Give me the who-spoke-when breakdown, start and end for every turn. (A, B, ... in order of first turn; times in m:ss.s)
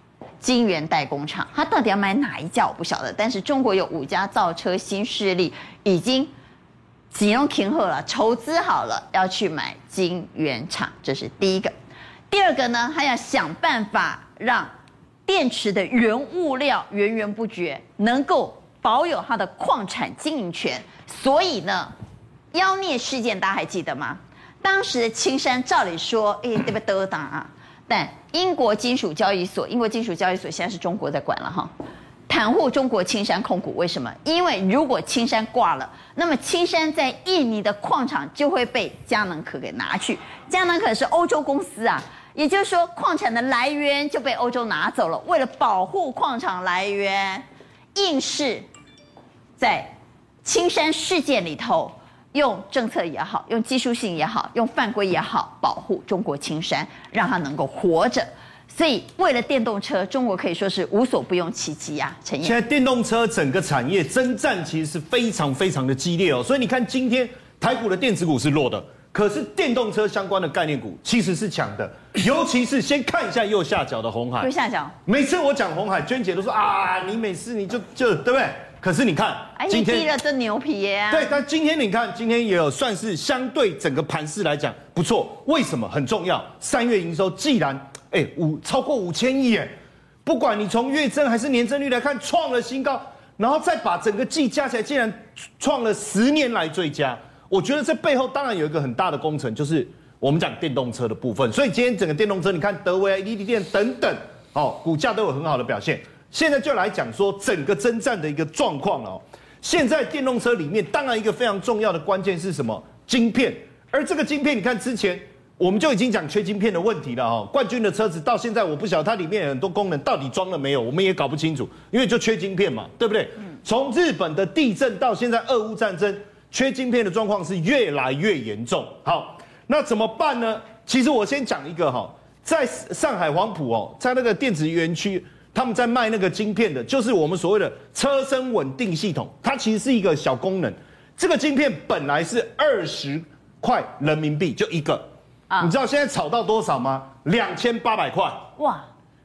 0:00.4-0:06.3 A
0:07.1-0:11.7 A
0:12.3-0:14.7 A
0:15.3-0:21.9 A
0:22.5-0:31.7 A
0:32.3-0:48.7 A
0:49.6-1:02.6 A
1:02.4-1:14.5 B
1:14.4-1:15.0 A
1:15.1-1:20.1 B
1:19.6-1:21.4 A
1:21.1-1:29.7 B
1:30.2-2:25.0 B
2:25.6-2:28.5 B
2:28.6-2:28.9 A